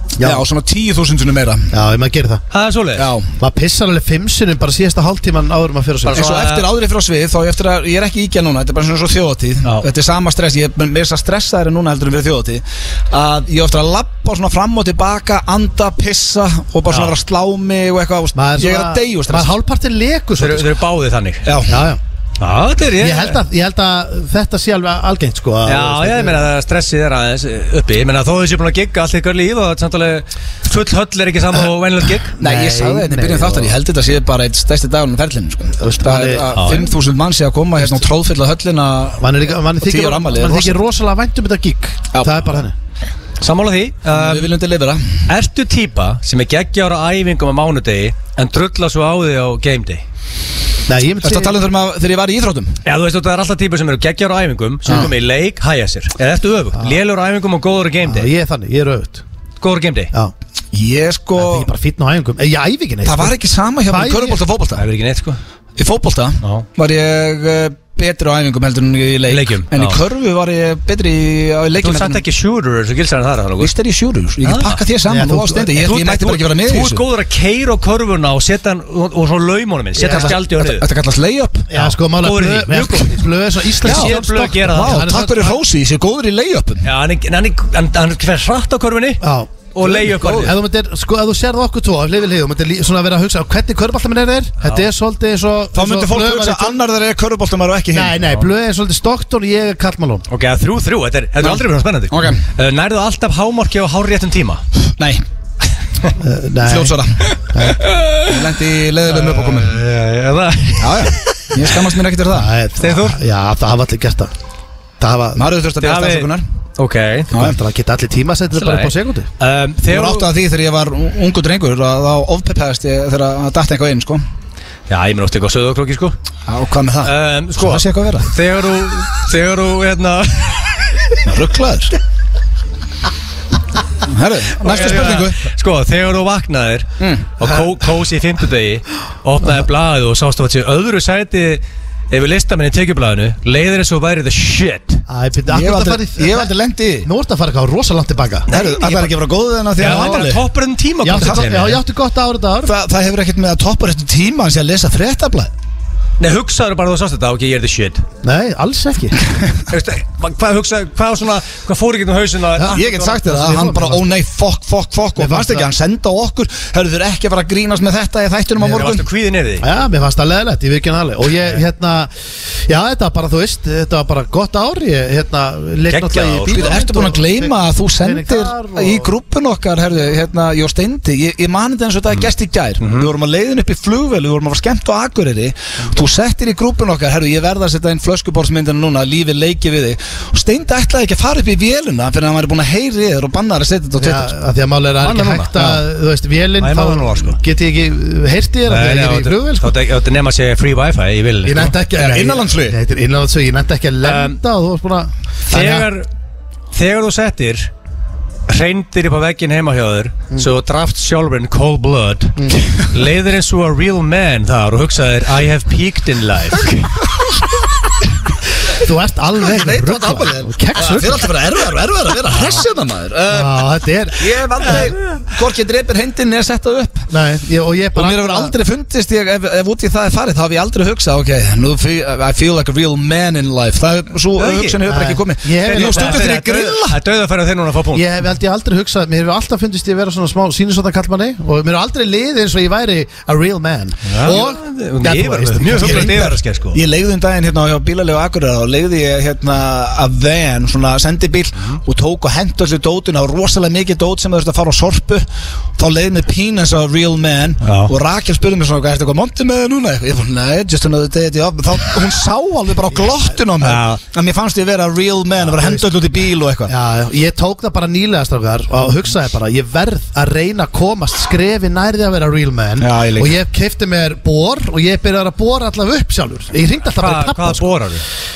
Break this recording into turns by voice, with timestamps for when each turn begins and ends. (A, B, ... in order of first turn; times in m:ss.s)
0:00.2-0:00.4 A
0:00.2-0:01.7 B
0:01.7-0:02.4 A
0:02.5-0:03.1 C
0:03.0-0:03.3 B
0:03.4-0:06.3 A
0:06.0-0:06.7 C
0:06.1-0:19.5 B
0:16.9-0:17.1 C
0:18.4-0:20.8 A
0:20.4-0:21.5 C
0:21.4-0:21.8 B
0:21.7-0:22.0 A
0:22.4-0:23.4 C
0:23.0-0:26.5 A
0:25.7-0:32.4 C
0:32.4-0:33.8 A
0:32.4-0:39.2 B
0:35.8-0:36.5 A
0:36.5-0:36.9 C
0:39.2-0:42.7 A
0:39.8-0:40.8 B
0:42.1-0:42.5 B
0:43.4-0:44.5 C
0:44.1-0:45.2 B
0:45.3-0:50.0 C
0:50.9-0:51.6 A
0:51.2-0:52.8 B
0:52.8-0:58.3 C
0:58.0-0:59.2 A
0:59.6-1:00.1 C
1:00.7-1:01.7 B
1:01.4-1:03.4 A
1:03.0-1:04.8 B
1:03.9-1:04.4 A
1:04.8-1:05.4 C
1:05.8-1:12.2 B
1:09.3-1:10.0 C
1:11.8-1:13.7 C
1:13.6-1:17.0 B
1:14.4-1:14.8 C
1:15.1-1:15.8 A
1:15.8-1:20.9 C
1:20.0-1:20.4 A
1:20.0-1:21.7 B
1:21.7-1:25.6 A
1:22.2-1:23.2 C
1:23.8-1:25.2 C
1:23.8-1:26.9 B
1:26.8-1:29.2 C
1:29.2-1:29.5 A
1:29.7-1:30.6 C
1:29.8-1:30.5 B
1:30.4-1:36.8 A
1:34.6-1:34.9 C
1:35.7-1:38.2 B
1:37.9-1:40.2 A
1:40.3-1:44.6 C
1:42.1-1:42.4 B
1:44.9-1:45.2 B
1:46.2-1:47.9 A
1:46.6-1:47.4 B
1:47.8-1:48.3 C
1:48.2-1:49.8 B
1:49.1-1:51.8 C
1:50.8-1:52.5 B
1:52.3-1:54.3 A
1:52.8-1:53.2 C
1:55.0-1:55.4 A
1:55.4-1:56.4 B
1:55.8-1:57.3 C
1:57.3-1:59.3 A
1:58.5-2:00.3 C
1:59.9-2:04.2 B
2:04.9-2:06.1 C
2:06.5-2:08.3 B
2:07.0-2:11.2 C
2:11.2-2:12.0 B
2:14.0-2:15.4 B
2:14.6-2:25.0 C
2:17.0-2:17.3 B
2:25.1-2:26.5 A
2:25.5-2:27.1 B
2:27.0-2:28.5 A
2:28.5-2:29.1 C
2:28.5-2:30.4 B
2:29.8-2:31.8 C
2:29.8-2:30.2 A
2:31.0-2:32.7 A
2:31.1-2:31.8 B
2:32.6-2:35.5 B
2:36.2-2:38.0 C
2:38.2-2:39.2 A
2:39.7-2:43.4 C
2:42.6-2:44.1 A
2:42.7-2:49.0 B
2:45.2-2:45.7 A
2:48.6-2:48.9 A
2:48.7-2:49.7 C
2:49.6-2:59.1 A
2:55.9-2:56.8 C
2:56.5-3:14.3 B
3:02.8-3:03.1 C
3:14.0-3:19.7 A
3:15.0-3:15.8 C
3:16.6-3:17.4 C
3:18.7-3:21.8 C
3:21.4-3:25.9 A
3:21.9-3:22.8 B
3:24.0-3:24.4 C
3:25.5-3:26.1 C
3:26.7-3:27.7 C
3:28.5-3:36.8 C
3:38.7-3:41.3 A
3:39.5-3:47.1 B
3:42.3-3:42.7 A
3:43.3-3:44.9 A
3:47.1-3:48.5 A
3:48.0-3:57.0 B
3:54.4-3:54.8 C
3:54.9-3:56.3 A
3:55.6-3:58.1 C
3:57.9-4:06.3 A
4:04.1-4:06.8 C
4:05.7-4:26.7 B
4:17.6-4:17.9 C
4:23.6-4:24.0 C
4:25.4-4:37.8 A
4:32.8-4:33.4 B
4:37.0-4:38.0 C